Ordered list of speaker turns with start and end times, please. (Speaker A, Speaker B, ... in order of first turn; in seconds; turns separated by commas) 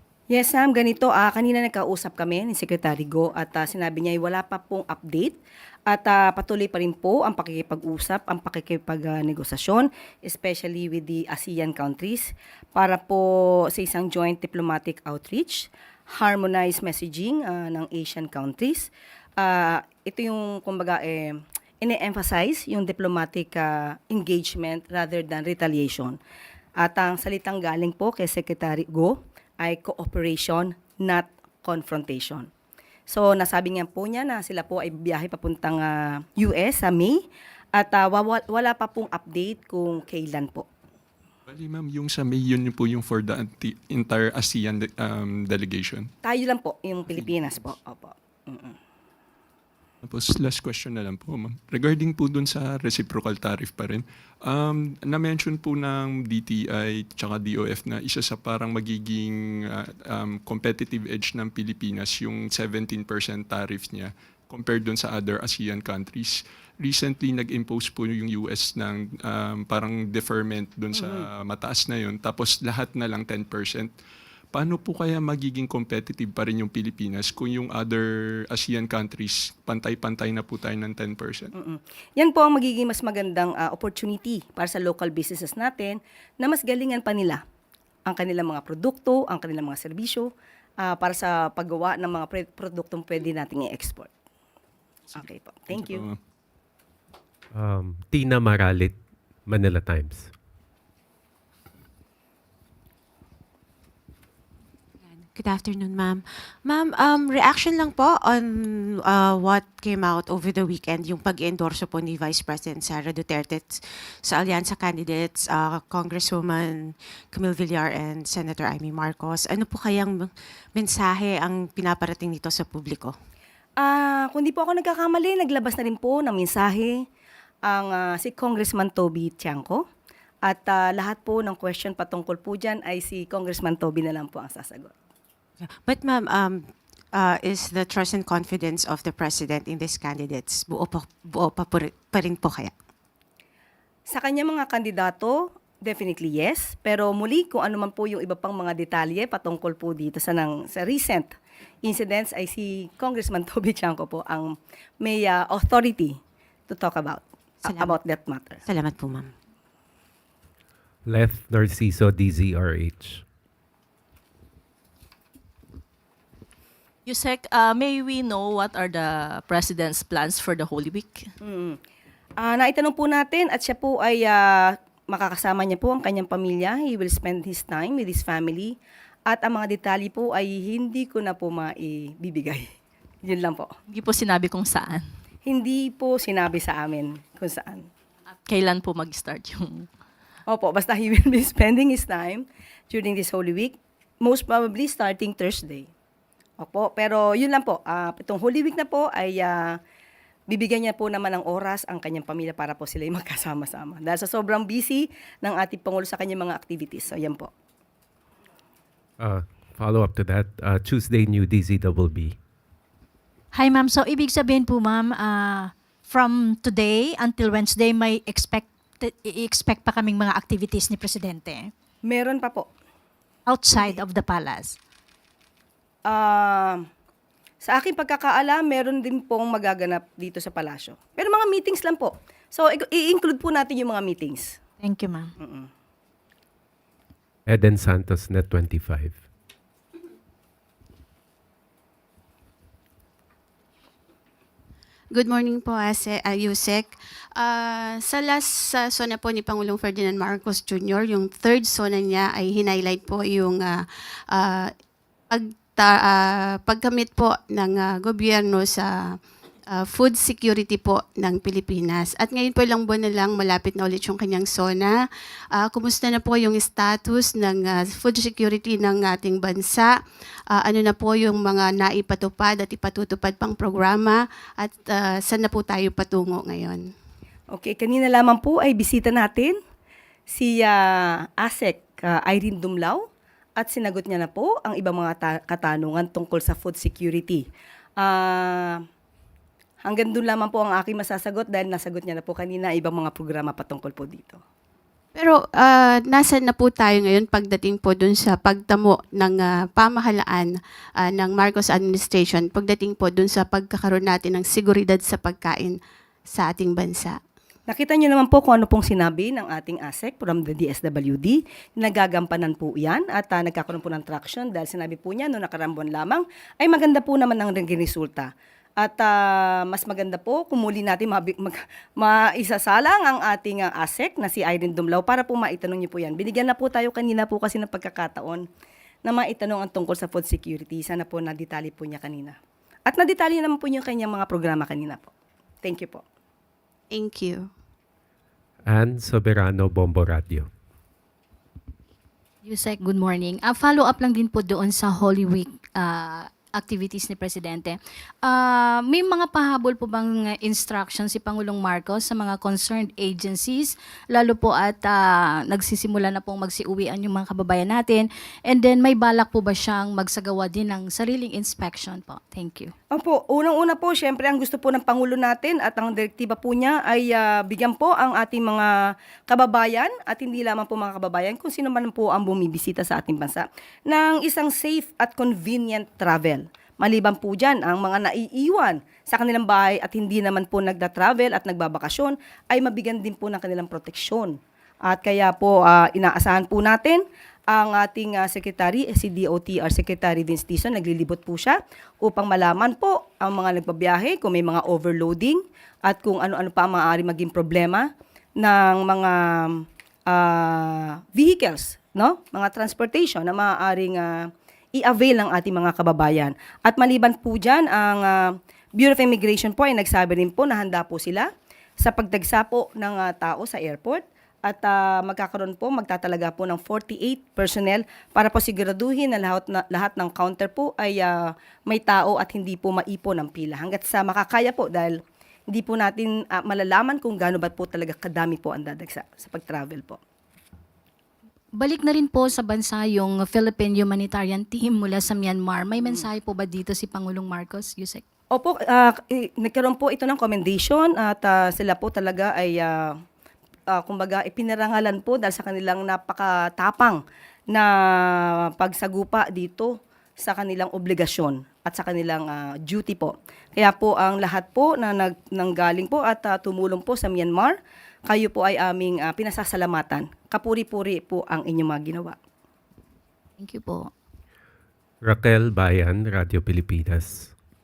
Speaker A: 0.3-5.3, Speaker A: 5.9-26.2, Speaker A: 26.8-32.5, Speaker A: 33.1-40.7, Speaker B: 41.5-46.1, Speaker A: 46.2-48.8, Speaker B: 50.0-73.9, Speaker A: 70.9-71.3, Speaker B: 74.5-81.5, Speaker A: 81.5-87.4, Speaker A: 88.1-94.1, Speaker B: 95.1-96.2, Speaker A: 95.2-96.0, Speaker C: 97.5-99.0, Speaker C: 99.5-100.3, Speaker D: 105.2-123.1, Speaker A: 123.8-127.0, Speaker A: 127.6-129.8, Speaker A: 130.4-134.9, Speaker D: 135.6-142.7, Speaker A: 144.1-158.6, Speaker D: 157.6-158.0, Speaker D: 158.7-159.3, Speaker C: 161.1-163.2, Speaker E: 167.1-171.3, Speaker A: 171.4-171.8, Speaker A: 172.4-178.8, Speaker A: 179.3-182.7, Speaker A: 183.2-183.7, Speaker E: 183.9-185.1, Speaker A: 185.4-187.9, Speaker E: 188.4-189.9, Speaker A: 190.4-195.9, Speaker A: 196.6-199.8, Speaker A: 200.5-207.5, Speaker C: 209.2-212.4, Speaker F: 213.5-221.7, Speaker A: 222.0-222.7, Speaker F: 223.5-224.8, Speaker A: 226.0-226.9, Speaker A: 227.6-234.6, Speaker F: 234.8-235.3, Speaker A: 235.4-235.7, Speaker C: 237.5-239.2, Speaker G: 245.1-254.7, Speaker G: 255.3-259.2, Speaker G: 259.7-264.9, Speaker G: 265.5-269.9, Speaker G: 270.5-276.9, Speaker A: 277.5-279.6, Speaker A: 280.3-283.0, Speaker A: 283.6-287.5, Speaker A: 288.0-288.9, Speaker A: 289.8-294.4, Speaker G: 295.1-307.2, Speaker A: 307.7-328.4, Speaker A: 329.0-335.1, Speaker A: 335.6-336.0, Speaker G: 336.9-337.5, Speaker C: 338.6-340.5, Speaker H: 342.4-362.7, Speaker A: 362.9-430.0, Speaker H: 431.6-438.0, Speaker A: 438.3-443.0, Speaker A: 443.7-462.2, Speaker H: 463.4-463.9, Speaker C: 465.0-467.3